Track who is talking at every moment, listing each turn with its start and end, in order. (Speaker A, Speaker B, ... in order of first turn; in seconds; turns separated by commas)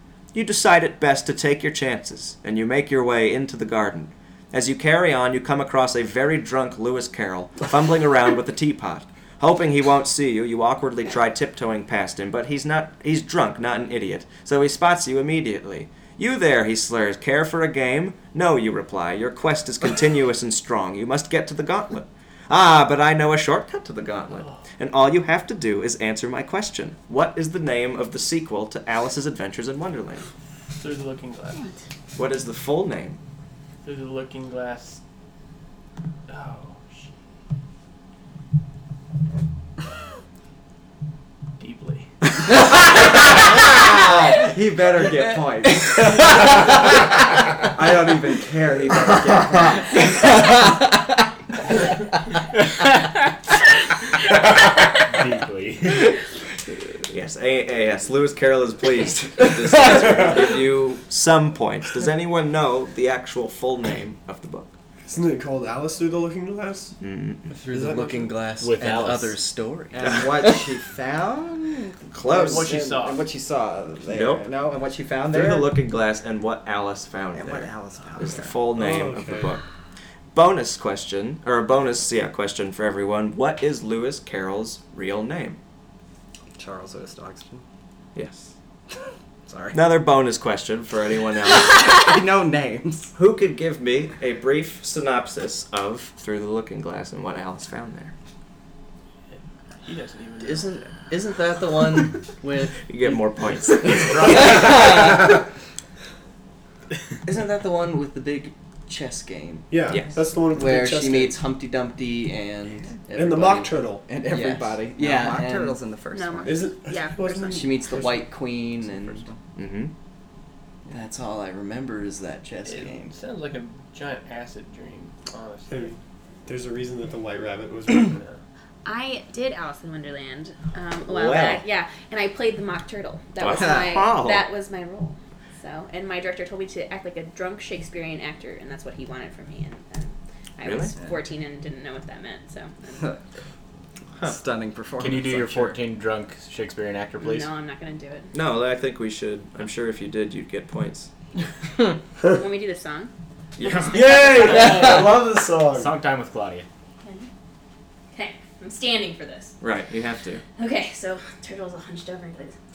Speaker A: 0.3-30.3, Speaker B: 30.7-31.6, Speaker A: 32.1-33.2, Speaker B: 33.8-35.0, Speaker B: 36.3-37.1, Speaker B: 41.6-42.3, Speaker C: 43.8-46.8, Speaker C: 47.7-50.1, Speaker D: 55.1-56.1, Speaker A: 57.1-64.7, Speaker E: 65.1-67.0, Speaker A: 67.0-67.5, Speaker F: 67.5-70.6, Speaker E: 67.7-68.3, Speaker D: 68.6-69.4, Speaker C: 69.9-75.7, Speaker A: 70.0-70.3, Speaker A: 72.1-72.7, Speaker B: 72.2-73.2, Speaker A: 74.1-74.5, Speaker A: 75.3-79.6, Speaker C: 77.3-78.6, Speaker E: 78.7-79.5, Speaker A: 80.3-85.6, Speaker C: 86.6-87.6, Speaker A: 88.2-88.5, Speaker C: 89.5-89.8, Speaker A: 89.7-91.8, Speaker C: 91.5-93.1, Speaker A: 93.2-98.1, Speaker B: 99.3-100.7, Speaker F: 100.4-102.8, Speaker A: 102.9-104.6, Speaker F: 103.9-105.4, Speaker F: 107.2-109.7, Speaker E: 109.7-111.4, Speaker A: 109.9-110.2, Speaker F: 110.5-115.8, Speaker E: 113.1-114.0, Speaker C: 114.1-116.7, Speaker G: 116.1-117.8, Speaker E: 116.5-118.4, Speaker F: 117.5-119.4, Speaker A: 119.6-119.9, Speaker F: 120.9-123.1, Speaker B: 122.7-126.0, Speaker E: 125.7-128.2, Speaker B: 128.1-128.4, Speaker G: 128.8-143.2, Speaker A: 131.1-131.6, Speaker A: 133.4-134.5, Speaker A: 140.6-140.9, Speaker C: 144.2-145.8, Speaker D: 145.0-147.5, Speaker G: 147.2-148.3, Speaker A: 148.3-151.1, Speaker G: 152.3-154.9, Speaker A: 153.6-154.0, Speaker E: 153.7-156.0, Speaker D: 154.6-155.2, Speaker D: 155.7-156.7, Speaker G: 157.0-157.3, Speaker G: 158.1-159.6, Speaker A: 159.6-160.4, Speaker G: 160.6-162.6